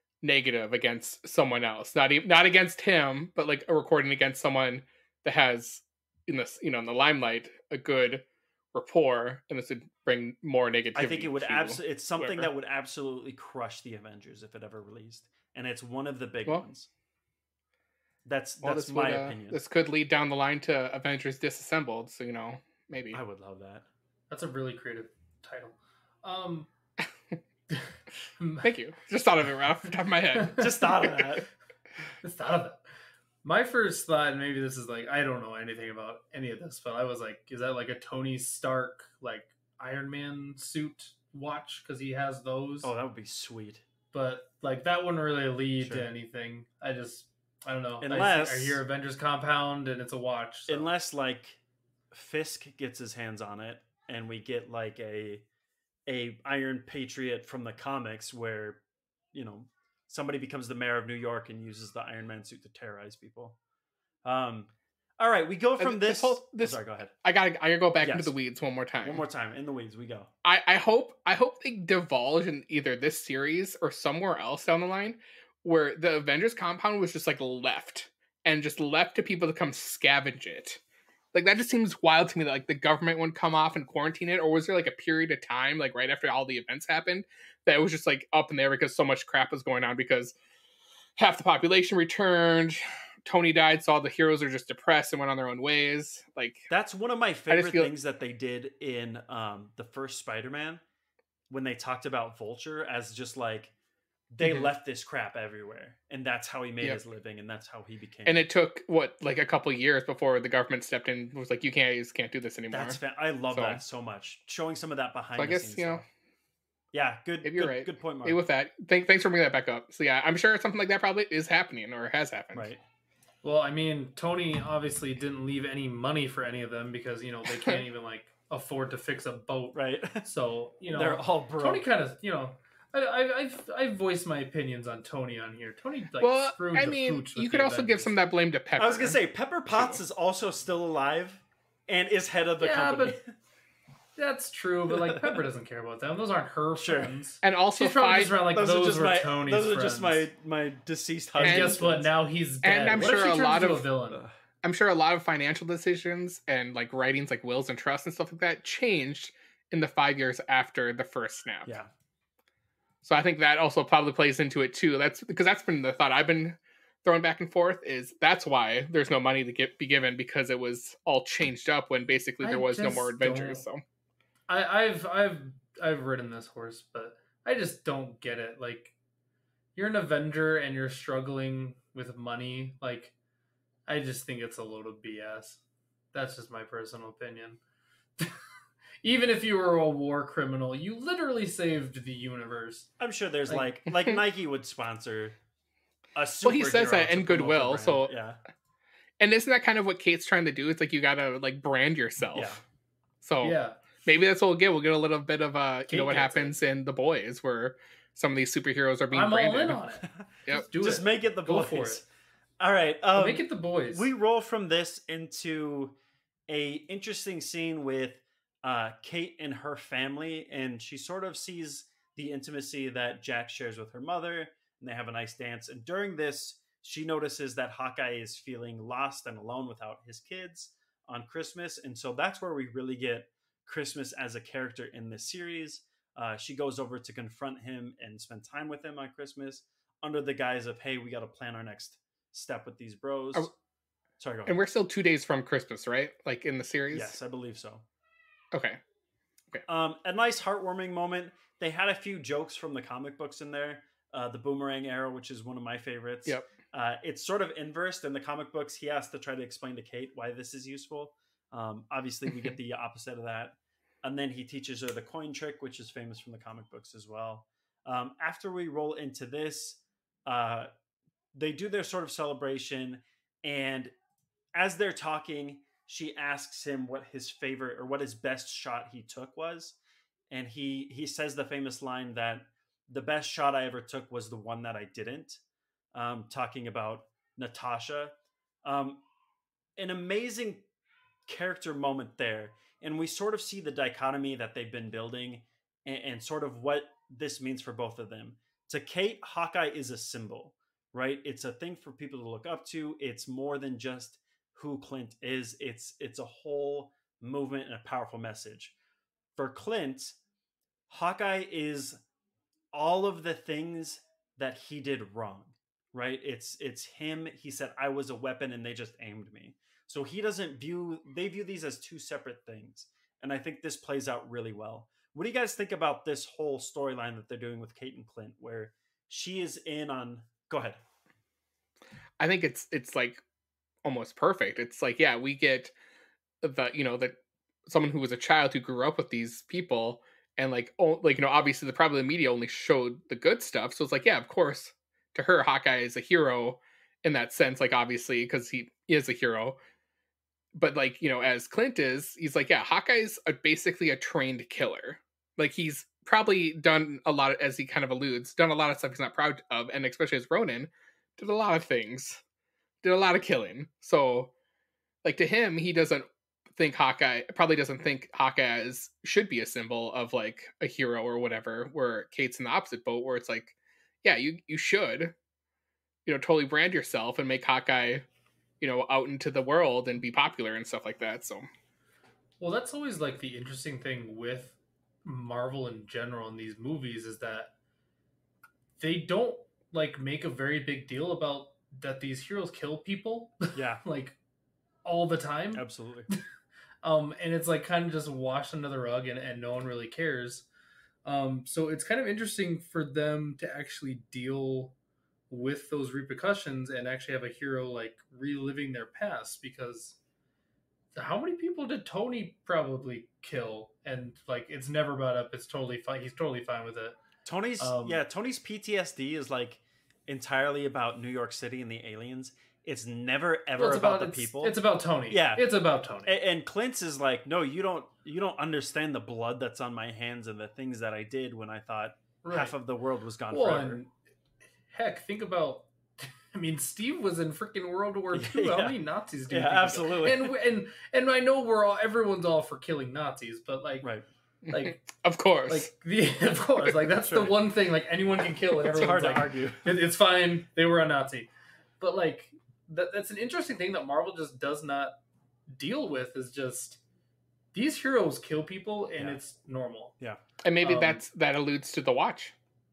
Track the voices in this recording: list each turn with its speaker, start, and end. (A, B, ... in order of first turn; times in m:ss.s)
0:00.2-0:12.5 A
0:10.9-0:16.9 B
0:18.2-0:19.6 B
0:18.6-0:23.2 A
0:23.1-0:23.8 B
0:24.3-0:26.7 C
0:28.4-0:28.7 C
0:28.6-0:31.3 A
0:30.3-0:30.6 C
0:30.6-0:31.4 B
0:32.2-0:32.8 C
0:33.4-0:42.9 C
0:42.8-0:43.8 B
0:44.1-0:50.9 C
0:45.8-0:46.0 B
0:48.0-0:48.8 B
0:50.7-0:51.6 B
0:52.1-0:55.4 B
0:56.1-0:58.8 B
0:59.3-1:03.6 B
1:04.2-1:07.1 B
1:05.8-1:09.2 A
1:08.0-1:08.3 B
1:09.0-1:10.3 B
1:10.4-1:20.8 A
1:21.3-1:30.3 A
1:31.2-1:36.7 A
1:36.7-1:40.8 B
1:37.5-1:37.9 A
1:41.5-1:43.7 B
1:44.3-1:48.4 B
1:48.2-1:53.0 A
1:52.7-1:56.0 B
1:53.5-1:53.8 A
1:55.4-1:56.0 A
1:56.9-1:58.4 B
1:57.4-2:02.7 A
2:02.5-2:02.8 B
2:03.4-2:18.1 C
2:09.7-2:10.2 B
2:10.9-2:11.8 B
2:16.2-2:20.0 A
2:18.8-2:23.3 B
2:22.6-2:23.2 C
2:24.2-2:30.3 C
2:24.9-2:25.4 B
2:26.8-2:27.1 B
2:27.4-2:28.4 A
2:28.5-2:32.1 B
2:31.4-2:34.2 C
2:31.4-2:32.0 A
2:32.6-2:33.9 A
2:34.6-2:41.8 A
2:43.0-2:53.8 A
2:52.4-2:53.6 C
2:54.5-2:58.9 C
2:59.7-3:03.1 C
3:03.9-3:05.6 C
3:06.1-3:07.6 C
3:09.0-3:12.9 C
3:13.0-3:15.4 B
3:16.2-3:18.4 B
3:16.4-3:18.1 A
3:19.2-3:22.6 A
3:22.3-3:22.6 B
3:23.2-3:29.8 A
3:23.4-3:23.8 C
3:25.9-3:26.5 C
3:29.1-3:32.0 C
3:30.8-3:32.0 B
3:32.6-3:36.0 B
3:33.1-3:34.1 C
3:36.5-4:03.5 B
4:04.2-4:04.5 B
4:04.4-4:07.2 A
4:06.9-4:07.8 B
4:08.5-4:08.8 A
4:09.6-4:30.7 B
4:31.3-4:33.9 B
4:34.5-4:39.8 B
4:40.3-4:45.4 B
4:45.9-4:48.1 B
4:48.6-4:49.0 B
4:49.8-4:50.6 B
4:51.3-5:08.7 B
5:09.4-5:10.2 B
5:10.9-5:12.0 B
5:12.7-5:30.8 B
5:32.2-5:33.2 A
5:33.8-5:35.7 A
5:36.4-5:37.2 A
5:37.7-5:49.6 A
5:50.5-6:02.2 A
6:02.8-6:04.3 A
6:05.0-6:15.1 A
6:16.0-6:18.0 A
6:18.6-6:21.5 A
6:22.4-6:27.5 C
6:28.8-6:34.2 C
6:33.5-6:33.8 B
6:34.8-6:35.6 C
6:35.5-6:36.1 B
6:36.8-6:40.4 C
6:41.0-6:44.7 C
6:45.3-6:50.0 C
6:50.9-6:57.0 C
6:57.2-7:04.6 B
6:57.6-6:58.0 C
7:03.6-7:06.1 C
7:05.1-7:05.5 B
7:06.0-7:13.8 B
7:12.2-7:12.6 C
7:13.3-7:13.9 C
7:14.7-7:23.9 C
7:18.1-7:18.8 B
7:19.3-7:20.3 B
7:24.5-7:25.7 A
7:24.5-7:24.8 C
7:25.5-7:35.0 C
7:27.0-7:27.3 B
7:28.6-7:29.8 B
7:35.5-7:36.8 C
7:37.5-7:39.9 C
7:40.4-7:42.3 A
7:40.6-7:41.0 C